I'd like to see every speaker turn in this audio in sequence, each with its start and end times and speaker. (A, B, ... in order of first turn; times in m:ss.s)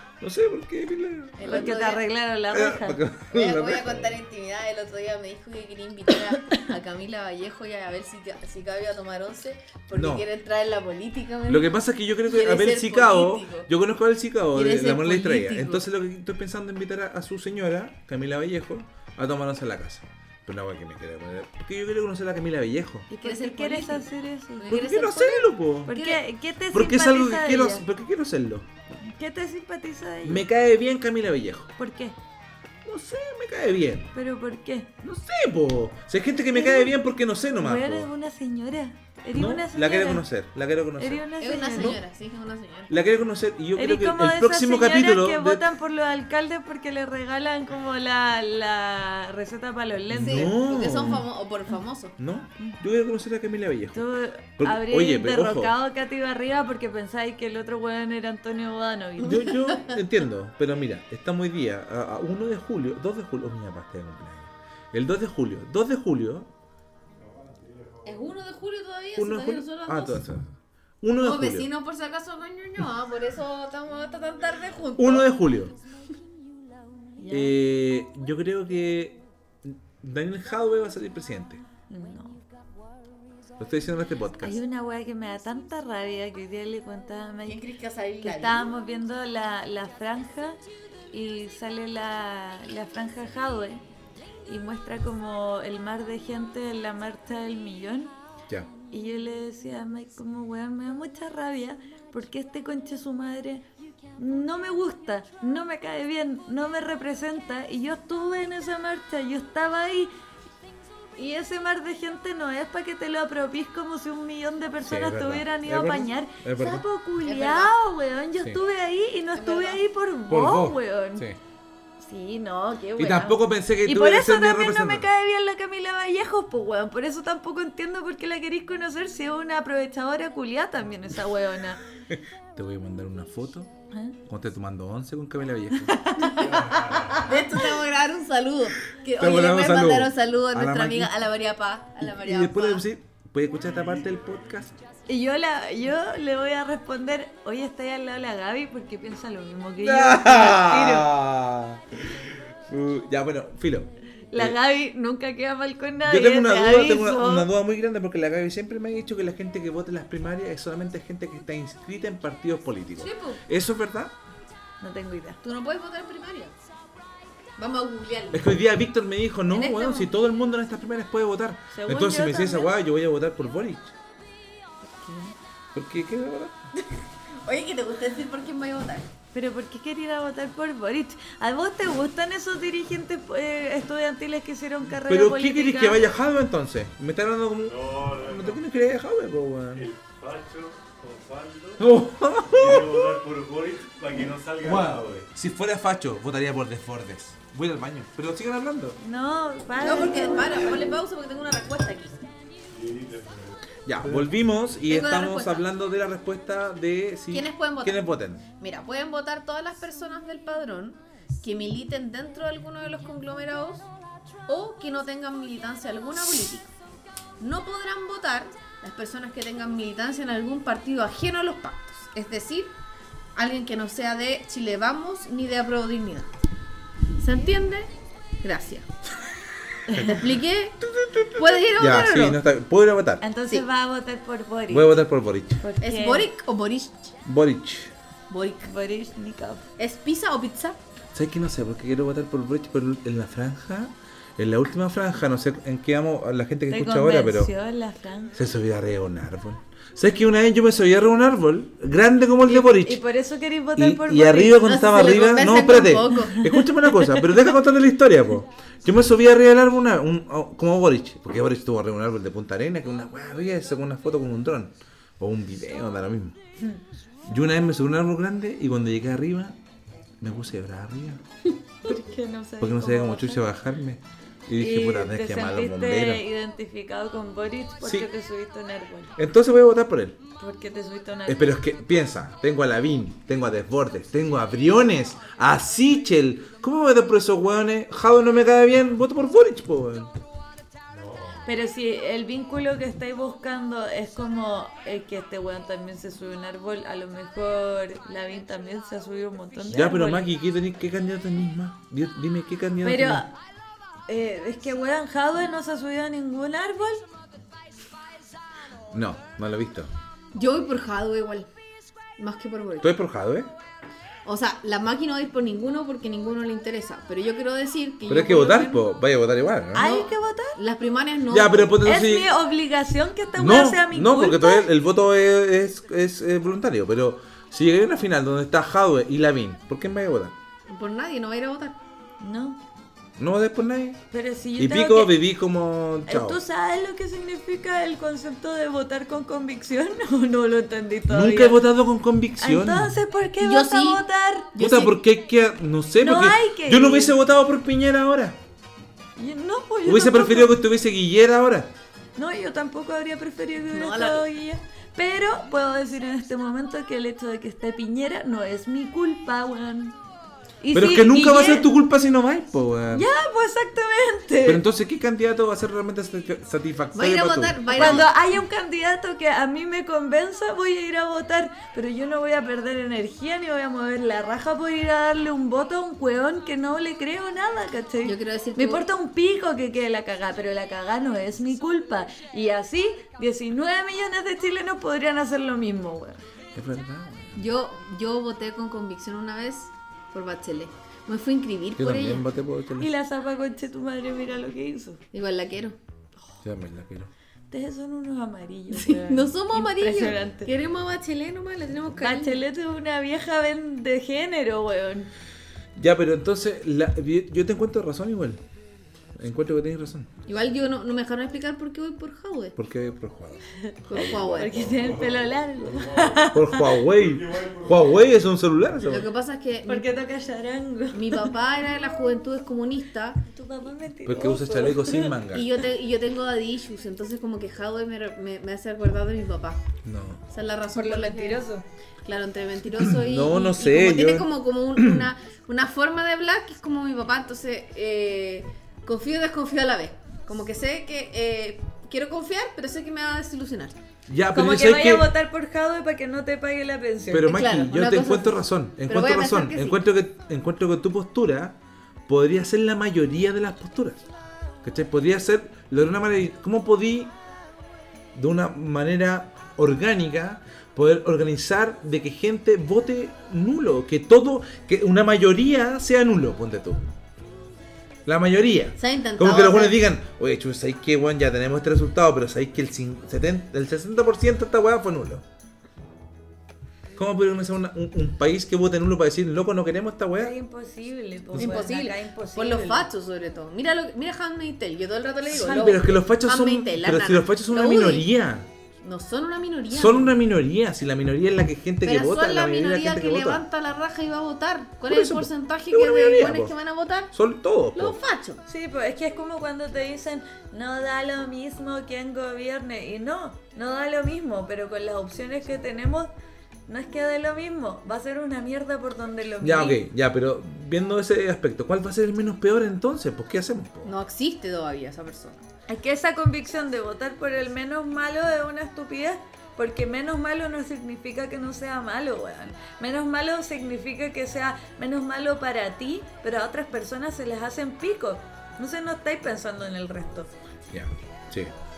0:00.2-0:01.7 A
0:01.4-0:02.0 B
0:01.4-0:03.0 C
0:02.5-0:04.2 A
0:03.3-0:13.7 B
0:09.9-0:10.2 A
0:11.5-0:23.1 A
0:14.5-0:15.8 B
0:23.1-0:24.8 C
0:23.2-0:26.2 B
0:24.7-0:25.9 A
0:25.9-0:27.8 C
0:26.7-0:28.7 A
0:29.0-0:30.4 C
0:30.2-0:31.7 A
0:31.8-0:32.2 C
0:32.8-0:34.1 A
0:34.1-0:34.9 C
0:35.0-0:38.1 A
0:36.5-0:37.0 C
0:37.5-0:40.2 C
0:39.3-0:41.2 A
0:41.0-0:42.0 C
0:41.4-0:43.0 B
0:42.9-0:45.6 A
0:43.8-0:50.5 C
0:50.1-0:51.2 A
0:50.2-0:52.2 B
0:52.2-0:54.1 A
0:53.9-0:59.6 C
0:54.6-0:55.7 A
0:59.2-1:06.5 A
0:59.3-0:59.9 B
1:07.4-1:07.9 D
1:08.0-1:10.2 B
1:09.2-1:11.7 A
1:11.2-1:15.3 B
1:15.0-1:15.8 A
1:17.2-1:17.5 C
1:17.3-1:21.6 A
1:21.9-1:22.4 C
1:23.6-1:24.6 A
1:24.4-1:27.6 C
1:27.4-1:28.7 B
1:28.2-1:30.6 C
1:31.1-1:33.8 C
1:34.4-1:38.1 C
1:38.9-1:43.6 C
1:44.2-1:50.1 C
1:51.2-2:01.3 C
1:54.8-1:56.8 A
1:57.2-1:57.7 B
1:59.3-1:59.8 B
2:00.3-2:01.4 A
2:02.0-2:11.8 C
2:03.0-2:05.1 A
2:12.1-2:13.7 A
2:14.2-2:16.1 A
2:15.8-2:16.6 C
2:16.3-2:17.3 D
2:17.1-2:22.8 B
2:19.2-2:21.1 A
2:22.0-2:24.7 A
2:23.7-2:24.3 D
2:25.1-2:31.1 C
2:29.8-2:32.0 A
2:32.7-2:34.6 A
2:34.3-2:37.5 C
2:36.0-2:44.2 A
2:43.0-2:43.4 B
2:44.8-2:45.4 C
2:45.4-2:46.5 B
2:47.6-2:48.5 B
2:48.3-2:53.9 A
2:49.5-2:50.1 B
2:51.7-2:52.7 C
2:54.8-2:55.3 C
2:55.7-2:56.6 A
2:56.8-2:59.1 B
2:59.3-3:06.0 C
3:05.0-3:09.9 A
3:07.7-3:08.6 D
3:09.7-3:11.9 D
3:11.8-3:13.2 A
3:12.5-3:15.3 D
3:14.6-3:19.0 A
3:19.0-3:20.8 C
3:19.8-3:22.2 B
3:22.7-3:23.6 D
3:23.8-3:28.4 A
3:24.9-3:25.6 B
3:27.3-3:28.0 B
3:28.6-3:33.9 B
3:34.5-3:36.7 B
3:37.4-3:42.8 B
3:43.4-3:46.3 B
3:47.2-3:47.9 B
3:48.4-3:48.9 B
3:49.9-3:50.1 C
3:50.0-3:50.8 B
3:50.8-3:53.2 A
3:51.3-3:52.4 B
3:53.2-3:55.0 C
3:54.7-3:55.6 A
3:55.6-3:56.3 C
3:55.8-3:57.1 B
3:57.2-3:57.9 A
3:58.3-3:58.7 B
3:58.6-3:59.6 C
3:59.8-4:00.8 B
4:01.1-4:07.5 A
4:06.7-4:08.4 C
4:08.3-4:13.0 A
4:12.5-4:14.9 C
4:13.8-4:26.4 A
4:14.6-4:16.5 B
4:16.3-4:17.3 C
4:27.2-4:29.6 A
4:30.2-4:31.2 A
4:31.8-4:33.4 C
4:32.6-4:36.2 A
4:34.6-4:39.1 C
4:37.8-4:38.1 A
4:39.2-4:40.2 A
4:40.4-4:41.5 C
4:41.3-4:50.1 A
4:50.9-4:51.4 D
4:51.4-5:00.3 C
4:59.7-5:03.2 A
5:02.8-5:03.3 C
5:04.1-5:07.0 C
5:08.9-5:09.9 A
5:10.3-5:11.5 B
5:12.2-5:12.9 B
5:12.8-5:13.5 A
5:14.2-5:18.8 B
5:18.1-5:19.9 A
5:19.7-5:20.6 C
5:19.8-5:21.8 B
5:21.3-5:22.3 A
5:21.8-5:24.7 C
5:23.3-5:30.3 A
5:30.7-5:31.8 B
5:32.2-5:32.6 C
5:33.2-5:34.0 A
5:34.1-5:35.2 C
5:34.6-5:36.4 A
5:36.1-5:41.6 C
5:41.1-5:43.0 A
5:42.4-5:44.5 C
5:43.4-5:45.0 B
5:44.6-5:48.4 A
5:46.0-5:47.2 C
5:49.2-5:50.6 C
5:49.8-5:51.7 A
5:52.2-6:00.0 C
5:53.7-5:54.3 B
6:00.6-6:01.7 C
6:00.7-6:03.1 A
6:02.9-6:04.6 C
6:04.4-6:08.1 A
6:06.9-6:08.1 B
6:07.7-6:26.2 C
6:18.0-6:18.8 B
6:26.5-6:27.4 A
6:27.3-6:32.2 B
6:31.8-6:32.9 A
6:32.8-6:35.0 C
6:35.1-6:35.8 B
6:36.4-6:37.1 A
6:37.5-6:40.5 C
6:38.7-6:42.4 B
6:42.0-6:45.1 C
6:45.8-6:48.4 A
6:49.2-6:50.1 A
6:50.2-6:52.6 B
6:52.6-6:54.6 A
6:53.6-6:56.8 C
6:53.8-6:54.9 B
6:55.8-6:56.2 D
6:56.3-6:59.1 A
6:57.2-6:57.7 D
6:58.8-6:59.8 B
6:59.6-7:01.3 C
7:00.9-7:03.2 B
7:03.3-7:05.2 C
7:04.0-7:05.5 A
7:05.3-7:09.6 B
7:09.8-7:10.2 A
7:10.3-7:11.4 B
7:10.7-7:11.6 C
7:12.0-7:23.8 B
7:12.8-7:15.1 A
7:24.1-7:25.1 A
7:24.3-7:27.4 C
7:27.1-7:34.1 A
7:27.2-7:29.8 B
7:34.6-7:37.1 A
7:38.1-7:46.8 A
7:48.0-7:55.2 A
7:48.8-7:49.8 B
7:57.0-8:00.3 A
8:00.2-8:02.9 C
8:01.3-8:08.1 B
8:05.3-8:08.5 A
8:05.3-8:05.8 C
8:08.8-8:10.2 B
8:09.7-8:13.4 A
8:11.8-8:17.1 B
8:14.8-8:16.5 A
8:17.1-8:18.0 A
8:17.7-8:18.4 B
8:18.4-8:26.1 C
8:26.7-8:29.8 C
8:29.4-8:33.9 A
8:33.8-8:35.4 B
8:35.7-8:50.3 C
8:50.7-8:51.5 A